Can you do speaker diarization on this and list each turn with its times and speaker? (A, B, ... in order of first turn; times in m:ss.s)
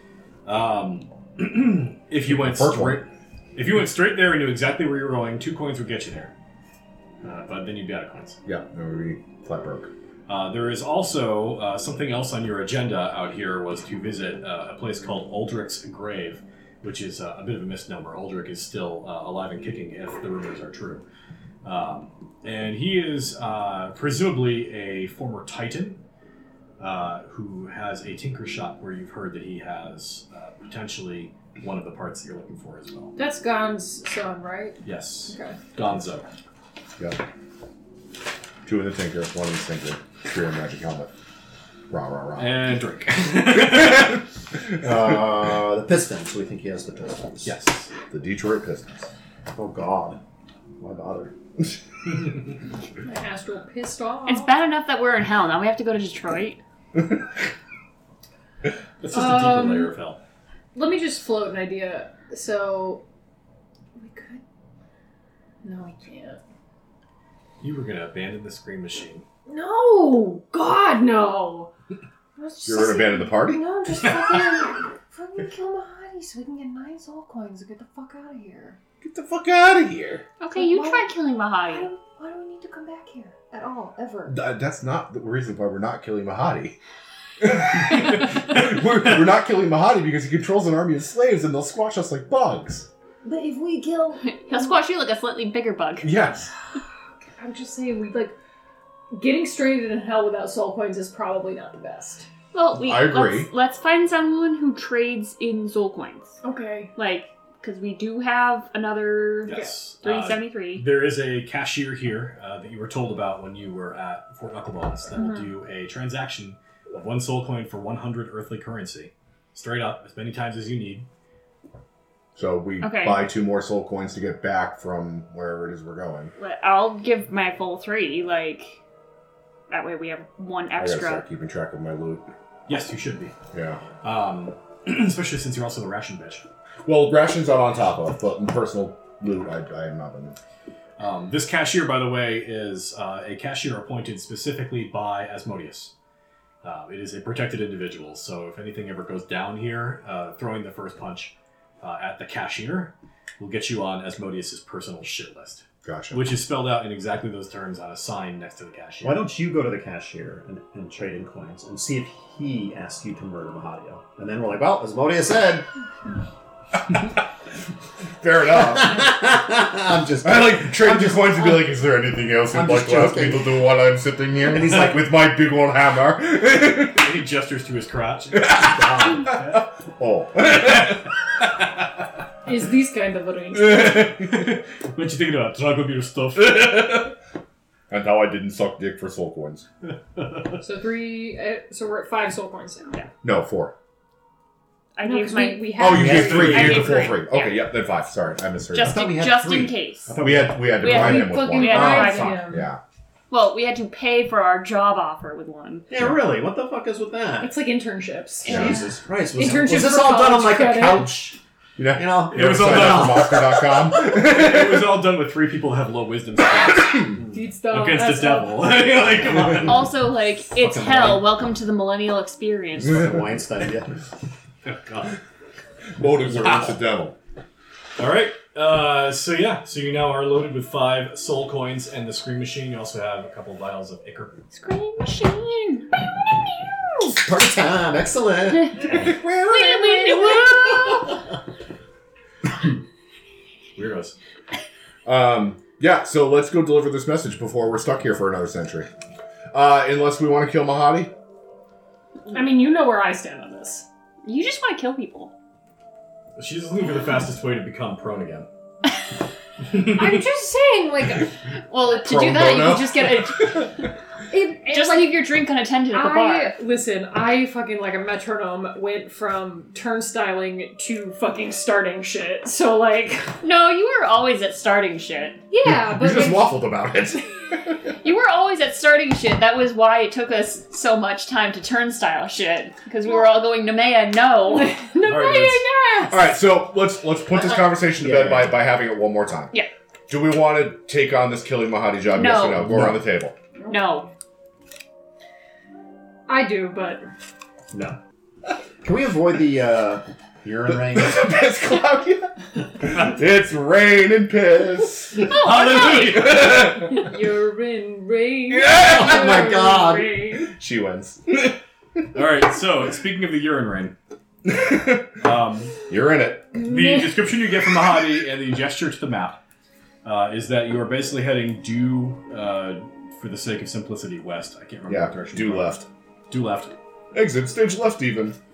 0:00.4-0:06.3 A
0:02.2-0:03.0 B
0:07.2-0:08.4 A
0:08.4-0:09.9 B
0:10.3-0:21.0 A
0:21.6-0:26.0 A
0:26.8-0:33.1 A
0:33.2-0:35.6 C
0:34.8-0:36.2 A
0:38.6-0:41.1 B
0:41.9-0:42.6 B
0:42.4-0:44.2 A
0:43.7-0:44.1 B
0:44.8-0:47.5 D
0:47.4-0:47.9 A
0:48.1-0:49.1 B
0:49.5-0:50.2 D
0:50.8-0:51.3 D
0:53.0-0:54.6 C
0:54.2-0:56.6 E
0:59.0-1:00.2 A
0:59.1-0:59.9 C
1:00.7-1:03.0 C
1:04.0-1:04.4 C
1:05.6-1:06.4 C
1:07.6-1:09.2 A
1:09.5-1:11.7 C
1:12.4-1:18.8 C
1:12.6-1:13.6 B
1:19.0-1:20.2 B
1:20.4-1:21.9 E
1:20.5-1:24.3 C
1:24.3-1:26.8 B
1:27.4-1:32.9 B
1:33.2-1:34.8 C
1:34.2-1:36.1 E
1:36.0-1:36.5 B
1:37.4-1:38.3 C
1:39.1-1:42.3 C
1:42.5-1:46.4 E
1:42.8-1:43.5 B
1:46.4-1:46.9 C
1:47.0-1:50.9 E
1:49.4-2:01.0 A
2:02.4-2:06.3 B
2:02.8-2:03.3 E
2:06.4-2:08.8 E
2:09.7-2:11.2 E
2:10.8-2:12.3 B
2:12.7-2:13.3 A
2:13.5-2:13.8 B
2:14.0-2:16.4 A
2:16.8-2:20.4 B
2:21.0-2:25.9 A
2:26.6-2:39.3 A
2:35.8-2:36.2 B
2:39.0-2:45.6 D
2:48.2-2:49.1 B
2:48.5-2:51.7 D
2:50.2-2:57.0 B
2:52.5-2:53.6 D
2:54.4-2:55.0 D
2:56.8-2:59.6 A
2:58.3-3:01.0 B
2:58.5-2:59.3 D
3:00.5-3:01.0 A
3:02.4-3:04.1 C
3:03.6-3:07.0 A
3:03.7-3:04.3 B
3:06.4-3:07.1 B
3:07.9-3:09.6 B
3:10.6-3:13.0 C
3:13.2-3:13.7 B
3:14.9-3:17.7 E
3:15.0-3:16.6 C
3:15.8-3:19.0 B
3:15.9-3:16.9 D
3:16.0-3:16.9 A
3:18.7-3:20.1 E
3:18.8-3:21.2 D
3:20.2-3:22.8 B
3:20.8-3:22.5 E
3:20.8-3:22.7 C
3:23.3-3:25.9 E
3:25.9-3:27.6 D
3:27.4-3:28.7 C
3:28.4-3:28.9 E
3:28.5-3:31.4 D
3:28.5-3:28.8 B
3:29.3-3:31.2 C
3:31.8-3:35.0 B
3:31.9-3:33.6 D
3:32.3-3:39.9 A
3:37.1-3:37.4 D
3:37.3-3:38.7 C
3:39.6-3:43.1 E
3:40.6-3:41.1 D
3:40.7-3:41.2 A
3:42.8-3:43.9 D
3:44.6-3:45.2 A
3:46.0-3:47.2 B
3:46.2-3:46.8 A
3:48.0-3:54.4 A
3:54.5-3:55.9 E
3:57.1-3:59.2 D
3:59.4-4:01.1 E
3:59.6-4:00.3 C
4:03.8-4:04.2 A
4:05.0-4:08.9 B
4:09.5-4:11.1 B
4:12.3-4:13.8 C
4:14.2-4:15.3 E
4:16.4-4:18.5 A
4:19.8-4:21.3 C
4:21.7-4:23.7 E
4:22.0-4:23.7 B
4:24.3-4:25.4 C
4:24.6-4:26.6 E
4:25.9-4:33.4 C
4:33.4-4:35.4 E
4:35.5-4:36.5 C
4:35.6-4:37.2 B
4:36.1-4:36.4 D
4:38.0-4:44.8 E
4:44.5-4:46.2 C
4:45.0-4:45.6 A
4:46.1-4:49.5 B
4:47.3-4:48.6 D
4:50.1-4:53.3 B
4:52.1-4:52.7 E
4:52.5-4:53.0 D
4:53.7-4:54.1 E
4:56.3-4:57.0 C
4:57.7-4:58.0 D
4:58.8-5:01.3 D
5:00.8-5:05.4 B
5:05.3-5:06.9 A
5:05.4-5:06.1 C
5:06.1-5:07.1 B
5:06.8-5:10.5 C
5:08.5-5:09.6 B
5:08.8-5:10.3 D
5:10.3-5:11.6 B
5:12.1-5:13.9 A
5:14.5-5:15.2 B
5:15.2-5:15.8 A
5:15.9-5:16.6 B
5:16.6-5:17.0 C
5:16.6-5:19.4 A
5:20.0-5:26.7 A
5:24.9-5:25.9 B
5:27.1-5:28.4 B